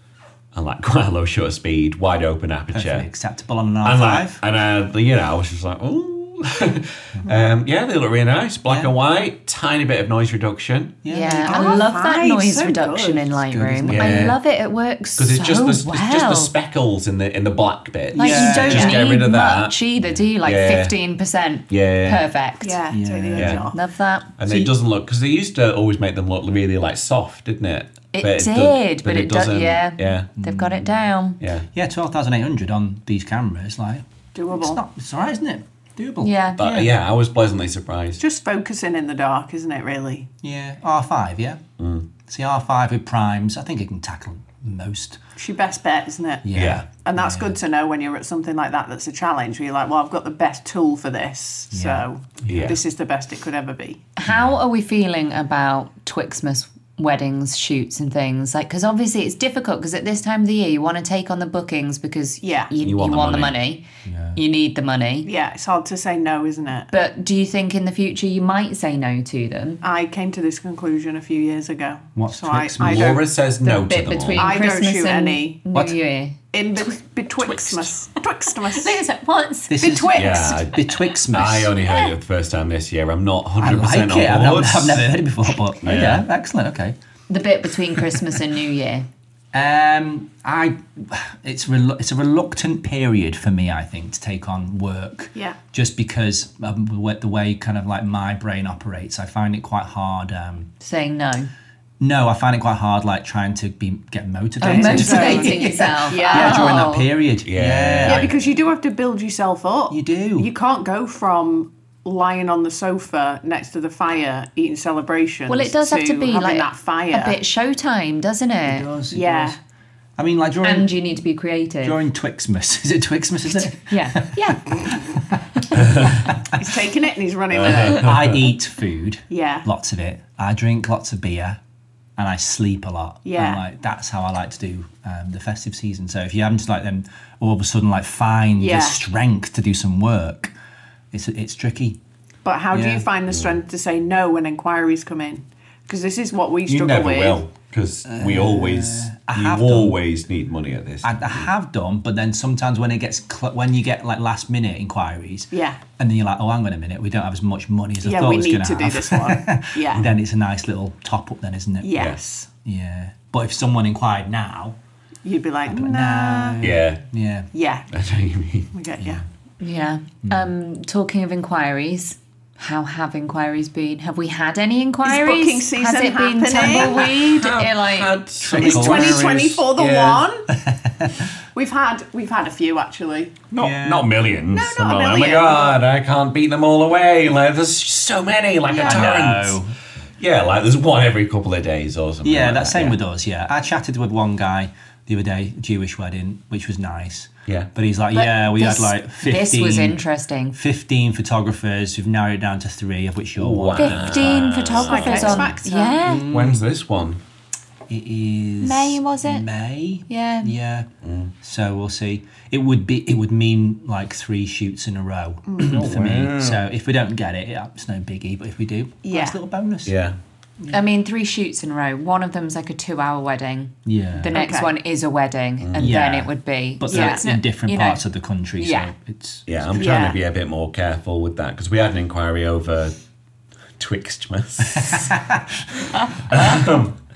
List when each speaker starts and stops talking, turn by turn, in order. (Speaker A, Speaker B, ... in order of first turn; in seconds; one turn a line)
Speaker A: 0.5-3.1
Speaker B: 2.7-4.4
Speaker A: 3.8-10.9
Speaker B: 8.7-8.9
Speaker B: 11.0-11.9
Speaker C: 11.1-16.5
Speaker D: 11.3-13.4
Speaker B: 13.5-14.3
Speaker A: 13.9-14.4
Speaker A: 15.2-19.8
Speaker B: 18.1-19.0
Speaker C: 18.1-22.8
Speaker A: 20.4-20.9
Speaker A: 21.7-22.2
Speaker D: 22.6-23.8
Speaker B: 22.9-23.7
Speaker A: 23.4-23.6
Speaker C: 23.7-24.3
Speaker A: 24.4-30.3
Speaker B: 24.4-24.7
Speaker C: 28.1-31.4
Speaker B: 30.4-31.0
Speaker A: 31.4-31.7
Speaker B: 31.7-36.9
Speaker D: 34.3-34.8
Speaker C: 36.2-36.6
Speaker A: 36.6-38.2
Speaker D: 38.2-40.3
Speaker B: 40.4-41.6
Speaker A: 41.8-42.1
Speaker B: 42.2-45.2
Speaker D: 45.4-54.0
Speaker B: 46.4-47.6
Speaker A: 46.5-46.8
Speaker B: 51.7-52.8
Speaker A: 52.5-52.8
Speaker C: 54.2-63.8
Speaker B: 54.2-54.6
Speaker D: 62.4-62.7
Speaker A: 62.8-63.6
Speaker B: 64.0-64.4
Speaker C: 64.3-65.3
Speaker D: 65.2-66.9
Speaker C: 66.9-69.8
Speaker D: 69.8-73.2
Speaker B: 72.1-73.2
Speaker A: 72.8-74.5
Speaker C: 73.6-76.3
Speaker D: 74.3-75.6
Speaker D: 76.5-79.0
Speaker C: 78.7-79.8
Speaker B: 79.7-81.7
Speaker D: 79.8-80.7
Speaker A: 80.1-85.1
Speaker C: 81.8-82.1
Speaker B: 83.6-87.0
Speaker A: 85.8-86.2
Speaker C: 87.3-89.0
Speaker B: 87.9-88.2
Speaker B: 89.5-100.7
Speaker C: 100.8-101.5
Speaker B: 102.0-108.5
Speaker C: 104.6-107.0
Speaker D: 104.6-106.9
Speaker A: 107.4-108.3
Speaker D: 108.0-117.4
Speaker B: 109.9-110.5
Speaker C: 115.5-118.9
Speaker B: 118.6-119.6
Speaker D: 119.1-119.6
Speaker B: 120.2-120.9
Speaker C: 120.6-122.0
Speaker B: 121.8-126.8
Speaker C: 123.6-125.0
Speaker A: 125.7-126.2
Speaker D: 126.5-128.3
Speaker A: 127.5-128.4
Speaker B: 127.6-131.6
Speaker D: 129.3-129.7
Speaker B: 132.2-140.5
Speaker D: 133.2-133.6
Speaker D: 138.6-139.0
Speaker B: 141.1-142.0
Speaker D: 142.4-147.4
Speaker B: 142.7-143.1
Speaker A: 146.7-151.5
Speaker B: 148.0-150.0
Speaker B: 151.0-162.1
Speaker D: 155.5-155.8
Speaker D: 158.0-160.1
Speaker D: 161.8-162.5
Speaker B: 162.6-164.8
Speaker D: 165.2-166.6
Speaker B: 165.7-167.5
Speaker A: 166.6-167.0
Speaker D: 167.5-167.9
Speaker A: 167.9-168.7
Speaker D: 168.7-169.2
Speaker C: 169.6-178.1
Speaker B: 170.2-170.5
Speaker D: 175.0-177.2
Speaker A: 177.0-180.2
Speaker B: 178.4-179.3
Speaker D: 178.5-180.5
Speaker B: 180.6-181.2
Speaker D: 181.5-183.4
Speaker A: 183.5-189.6
Speaker B: 183.5-184.1
Speaker D: 184.5-185.8
Speaker D: 188.7-189.0
Speaker B: 188.8-189.7
Speaker A: 190.2-193.0
Speaker B: 192.2-200.0
Speaker C: 198.1-200.6
Speaker B: 200.5-205.5
Speaker A: 203.3-205.5
Speaker C: 203.8-206.3
Speaker D: 204.8-206.0
Speaker B: 206.0-206.6
Speaker A: 206.2-207.2
Speaker B: 207.9-210.9
Speaker C: 208.6-209.4
Speaker C: 210.1-210.5
Speaker A: 211.0-211.3
Speaker B: 211.4-219.9
Speaker D: 215.5-215.9
Speaker A: 215.6-216.6
Speaker D: 219.0-219.4
Speaker A: 219.8-220.2
Speaker C: 220.7-228.0
Speaker B: 223.8-224.4
Speaker D: 224.3-224.7
Speaker A: 225.6-226.0
Speaker B: 225.8-229.9
Speaker D: 226.9-227.4
Speaker C: 228.6-228.9
Speaker A: 229.5-232.9
Speaker D: 229.7-230.2
Speaker A: 233.8-235.2
Speaker B: 234.8-235.4
Speaker A: 235.8-237.0